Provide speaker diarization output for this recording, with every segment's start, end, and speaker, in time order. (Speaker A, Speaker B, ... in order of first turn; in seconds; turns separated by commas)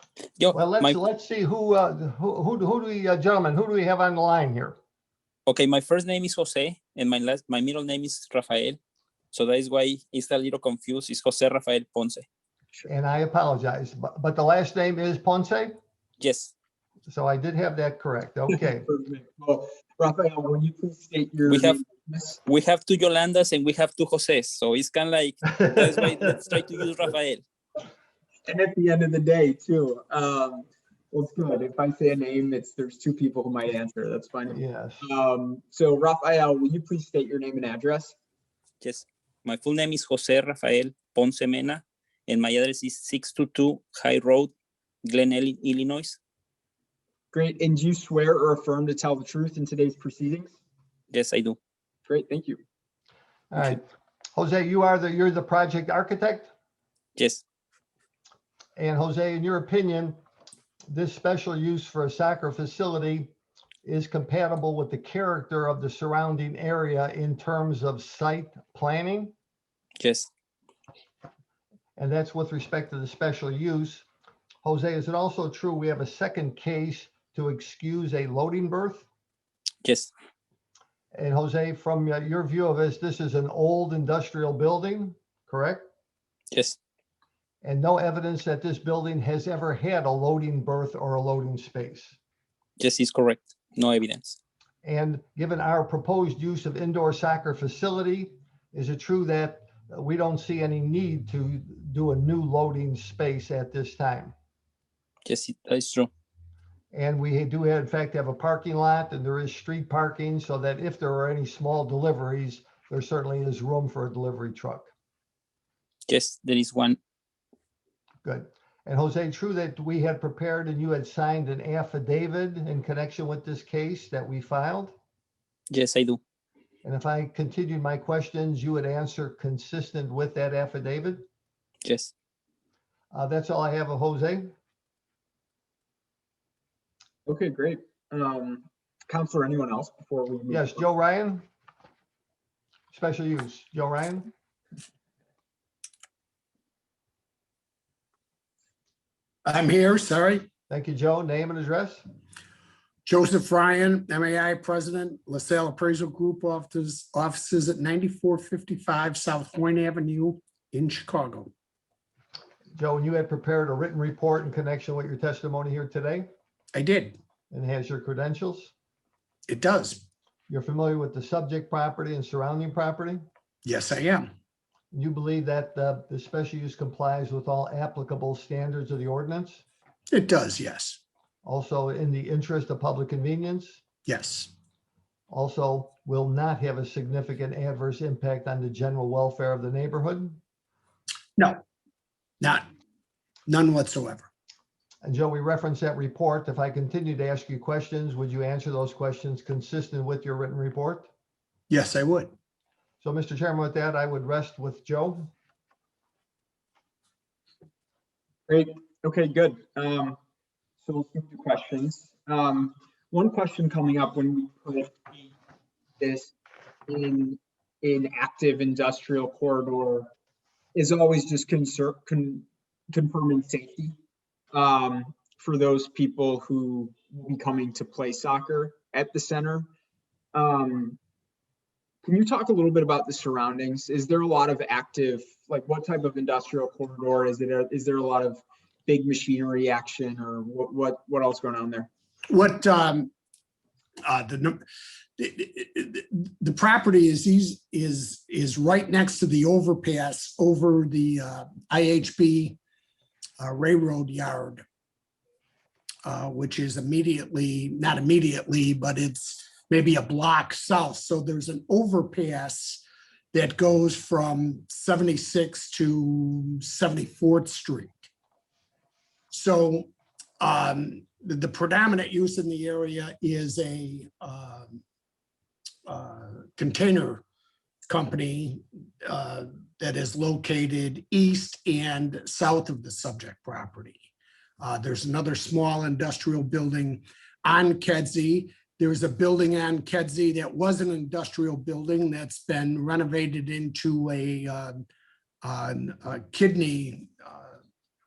Speaker A: 0.4-1.0, Speaker B: 0.5-4.8, Speaker A: 5.5-8.8, Speaker A: 9.3-12.2, Speaker B: 12.8-15.8, Speaker A: 16.2-16.5, Speaker B: 17.1-18.9, Speaker C: 18.5-22.4, Speaker A: 21.5-21.8, Speaker A: 22.4-27.4, Speaker B: 25.6-26.1, Speaker C: 28.4-38.1, Speaker B: 34.5-35.0, Speaker A: 38.8-44.5, Speaker A: 45.0-46.2, Speaker C: 47.3-50.5, Speaker A: 51.1-51.6, Speaker C: 52.0-52.6, Speaker B: 53.5-53.8, Speaker B: 54.3-56.5, Speaker A: 57.2-57.4, Speaker B: 58.8-60.1, Speaker B: 60.9-63.3, Speaker B: 63.8-69.3, Speaker A: 70.0-70.3, Speaker B: 72.0-74.0, Speaker B: 74.6-79.1, Speaker A: 79.8-80.1, Speaker B: 81.1-85.8, Speaker B: 87.6-92.2, Speaker A: 92.8-94.4, Speaker B: 94.8-104.3, Speaker A: 105.2-106.1, Speaker B: 106.9-114.9, Speaker A: 116.1-117.0, Speaker B: 118.2-124.9, Speaker A: 125.7-126.2, Speaker B: 126.8-131.2, Speaker A: 131.8-132.1, Speaker B: 133.1-134.5, Speaker C: 137.3-140.8, Speaker B: 140.5-141.4, Speaker B: 142.9-144.3, Speaker D: 149.4-150.5, Speaker B: 150.7-152.0, Speaker D: 153.0-161.5, Speaker B: 162.7-166.3, Speaker D: 166.7-167.2, Speaker B: 167.5-168.7, Speaker D: 169.5-170.0, Speaker B: 170.5-173.2, Speaker D: 173.6-174.3, Speaker B: 174.9-179.6, Speaker D: 180.1-181.0, Speaker B: 181.4-183.8, Speaker D: 184.1-184.5, Speaker B: 185.3-190.4, Speaker D: 191.4-191.6, Speaker D: 192.4-192.7, Speaker D: 193.5-194.3, Speaker B: 195.0-201.1, Speaker D: 201.7-202.3, Speaker B: 203.0-205.3, Speaker C: 208.5-210.2, Speaker C: 210.8-214.9, Speaker C: 216.0-216.3, Speaker C: 216.9-220.1, Speaker C: 220.7-223.9, Speaker C: 224.5-229.7, Speaker C: 230.3-231.0, Speaker C: 232.0-241.9, Speaker D: 242.3-243.1, Speaker D: 244.0-244.6, Speaker D: 245.2-252.6, Speaker D: 253.4-254.6, Speaker D: 256.0-268.1, Speaker D: 269.3-274.8, Speaker D: 275.9-277.2, Speaker D: 277.9-284.1, Speaker D: 284.6-294.8, Speaker D: 295.4-297.5